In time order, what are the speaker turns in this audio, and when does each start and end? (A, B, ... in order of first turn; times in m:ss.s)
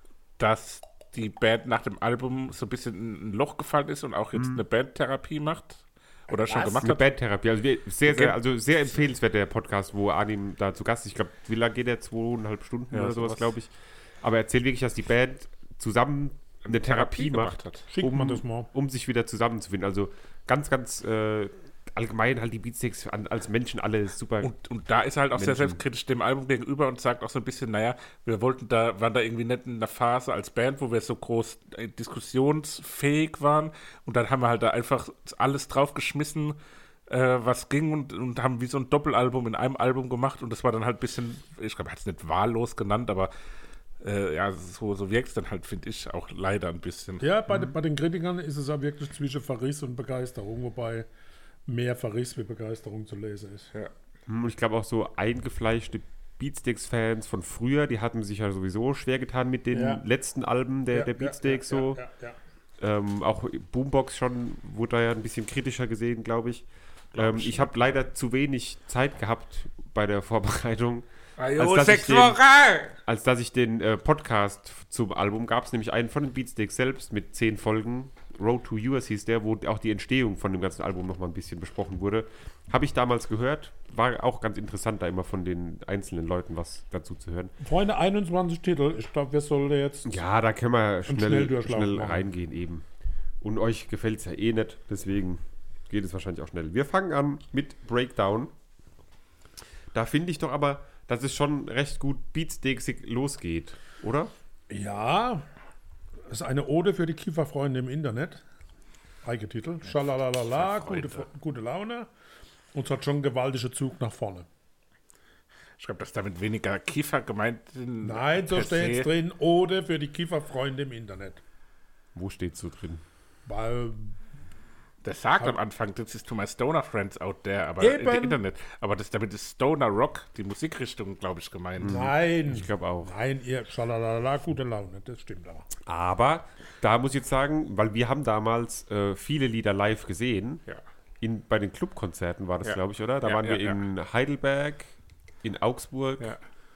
0:00.4-0:07.0 A
0:04.3-0:04.6 B
0:06.7-0:13.7 B
0:08.0-0:08.4 A
0:12.9-0:13.5 A
0:14.2-0:24.5 B
0:16.6-0:17.8 A
0:17.9-0:18.7 C
0:24.4-0:43.3 A
0:25.3-0:25.8 B
0:44.0-0:47.2 A
0:47.2-0:51.1 C
0:51.7-0:53.7 C
0:54.3-1:02.0 B
0:59.7-1:00.0 C
1:00.9-1:02.4 C
1:02.8-1:12.4 B
1:07.1-1:07.7 A
1:11.4-1:13.0 A
1:13.0-1:27.5 B
1:27.6-1:30.2 C
1:30.0-1:32.8 B
1:31.1-1:32.2 C
1:33.4-1:38.5 B
1:39.9-1:44.3 B
1:44.7-1:45.4 C
1:46.3-1:48.4 C
1:49.2-1:52.1 C
1:50.5-1:51.2 A
1:52.7-1:54.5 C
1:55.8-1:59.1 A
1:58.0-2:01.4 C
2:02.1-2:03.0 B
2:03.4-2:04.2 C
2:05.0-2:12.1 A
2:07.8-2:08.4 C
2:11.8-2:13.1 B
2:11.8-2:15.6 C
2:15.8-2:20.6 B
2:21.2-2:24.9 B
2:22.6-2:23.8 A
2:25.4-2:26.3 B